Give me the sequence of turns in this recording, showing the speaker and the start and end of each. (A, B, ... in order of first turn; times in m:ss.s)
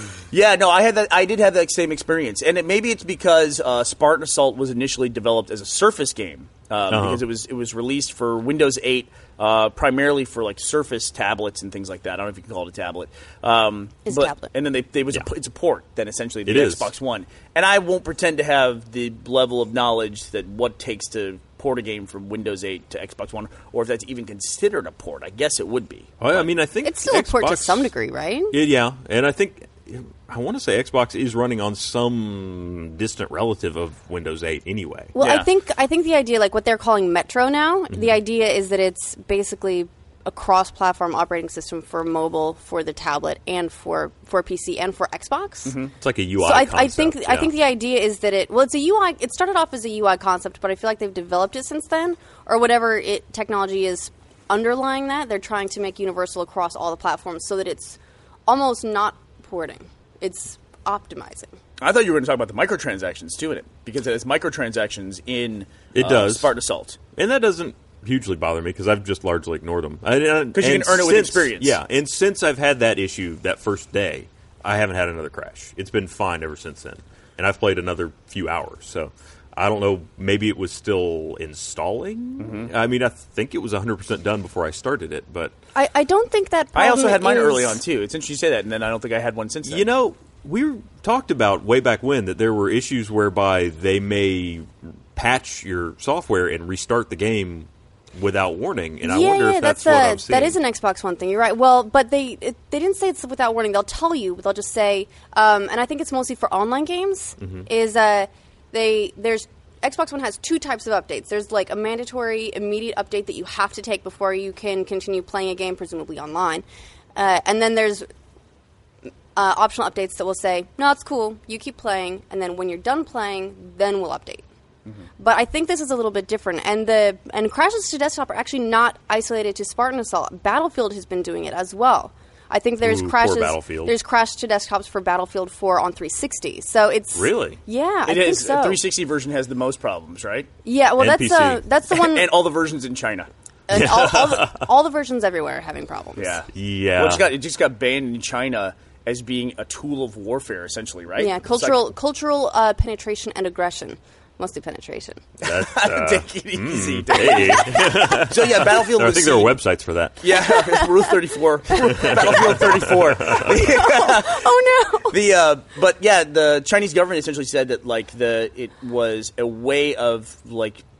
0:00.3-0:26.5 A
0:06.9-0:07.2 B
0:14.0-0:14.5 C
0:16.4-0:16.9 B
0:26.2-0:27.9 B
0:26.8-0:28.5 C
0:28.5-0:35.1 B
0:35.1-0:45.8 C
0:35.2-0:35.5 A
0:45.6-0:45.9 A
0:46.0-0:47.5 B
0:46.4-1:01.5 C
1:01.8-1:07.0 A
1:05.9-1:06.5 B
1:07.1-1:25.5 B
1:10.5-1:11.8 A
1:22.4-1:22.7 A
1:25.7-1:27.8 C
1:26.7-1:29.9 A
1:29.6-1:40.6 B
1:39.0-1:56.6 C
1:47.4-1:47.6 B
1:57.1-1:58.1 C
1:59.4-2:04.4 C
2:05.2-2:18.8 C
2:12.8-2:13.9 B
2:17.1-2:17.6 B
2:18.0-2:20.5 A
2:20.6-2:22.3 C
2:21.0-2:21.6 B
2:21.9-2:23.3 A
2:23.7-2:26.4 C
2:23.7-2:24.7 B
2:26.2-2:31.8 A
2:26.5-2:27.3 B
2:31.2-2:35.2 C
2:35.4-2:39.6 A
2:35.4-2:40.3 B
2:40.2-2:44.4 A
2:40.4-2:41.1 C
2:41.7-2:42.4 C
2:41.8-2:43.6 B
2:43.5-2:45.2 C
2:45.1-2:50.8 A